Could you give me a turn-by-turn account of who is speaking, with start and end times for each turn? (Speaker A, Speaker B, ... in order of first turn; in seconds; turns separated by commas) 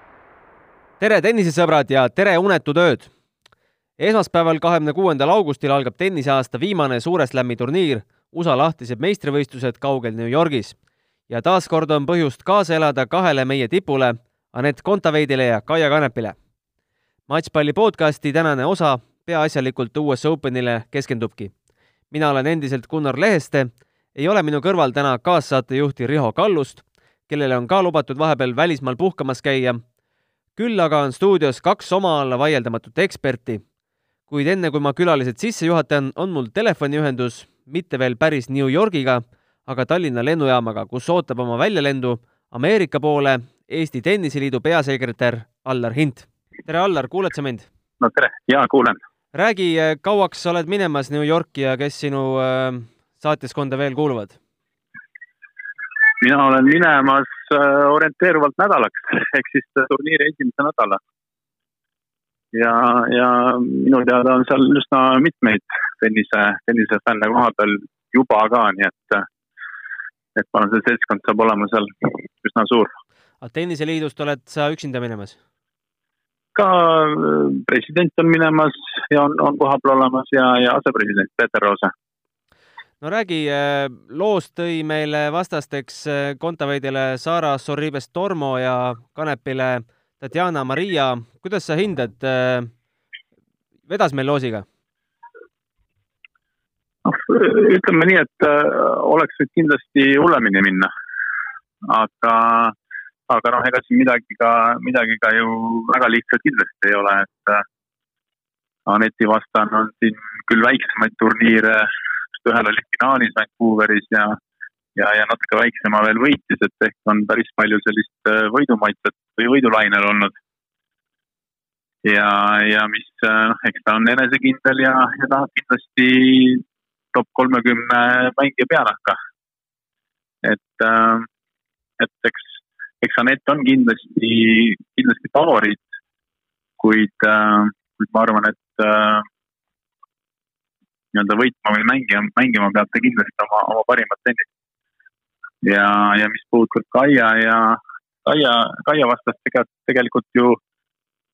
Speaker A: 1.0-3.1, Speaker A: 4.0-10.8, Speaker A: 11.3-16.4, Speaker A: 17.3-21.5, Speaker A: 22.1-29.8, Speaker A: 30.6-33.6, Speaker A: 34.3-47.7, Speaker B: 48.0-49.0, Speaker A: 49.3-54.4, Speaker B: 56.2-61.0, Speaker B: 62.5-69.3, Speaker B: 70.4-72.9, Speaker A: 73.4-75.4, Speaker B: 76.5-81.9, Speaker A: 83.0-92.7, Speaker A: 93.9-94.7, Speaker B: 97.0-100.9, Speaker B: 101.9-102.7, Speaker B: 103.3-107.6, Speaker B: 108.9-111.9, Speaker B: 112.4-114.4, Speaker B: 115.0-120.3, Speaker B: 122.0-129.2, Speaker B: 130.4-131.3, Speaker B: 132.0-132.4, Speaker B: 133.0-135.8, Speaker B: 136.8-139.3, Speaker B: 141.1-144.5, Speaker B: 145.6-150.6